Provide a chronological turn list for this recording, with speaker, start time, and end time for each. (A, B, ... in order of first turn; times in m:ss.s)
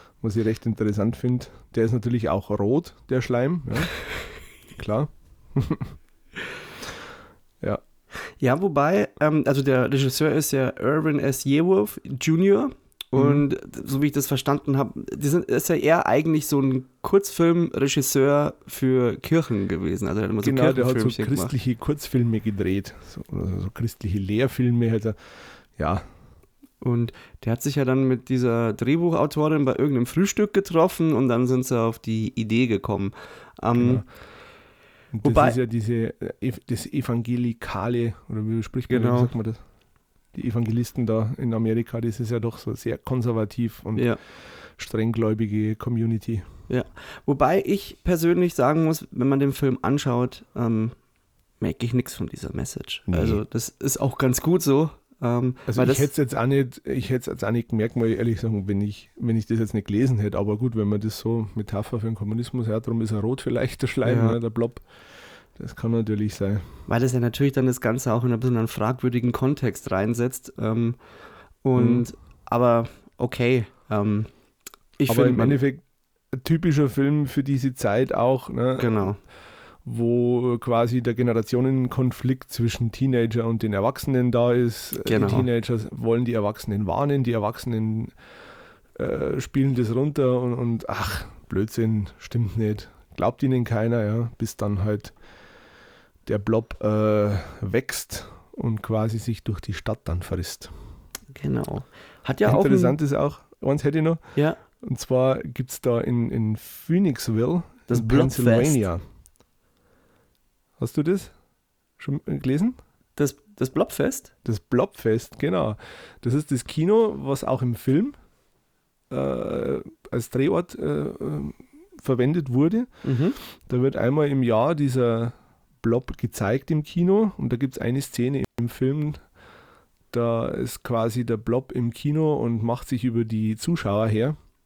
0:00.2-0:04.0 A
0:04.7-0:05.9 A
0:08.4-0:21.5 B
0:13.1-0:13.4 A
0:20.4-0:26.0 A
0:26.8-0:34.0 B
0:33.8-0:34.1 A
0:35.1-0:39.6 A
0:35.2-0:35.6 B
0:38.9-0:39.3 B
0:40.3-0:46.4 A
0:46.7-0:51.0 B
0:51.6-0:56.1 B
0:53.1-0:53.4 A
0:55.7-1:06.8 A
1:04.0-1:04.4 B
1:06.9-1:11.0 B
1:11.6-1:14.3 B
1:11.8-1:12.0 A
1:15.0-1:15.6 B
1:15.1-1:19.3 A
1:18.8-1:19.2 B
1:19.8-1:28.2 A
1:25.0-1:25.5 B
1:28.9-1:35.1 A
1:36.2-1:40.7 A
1:41.3-1:43.0 B
1:42.4-1:44.2 A
1:44.8-1:49.0 A
1:47.9-1:48.8 B
1:50.8-1:51.4 A
1:52.0-1:52.8 A
1:53.2-1:54.3 B
1:54.4-1:58.2 A
1:59.1-2:09.2 A
2:03.0-2:03.4 B
2:10.1-2:14.4 A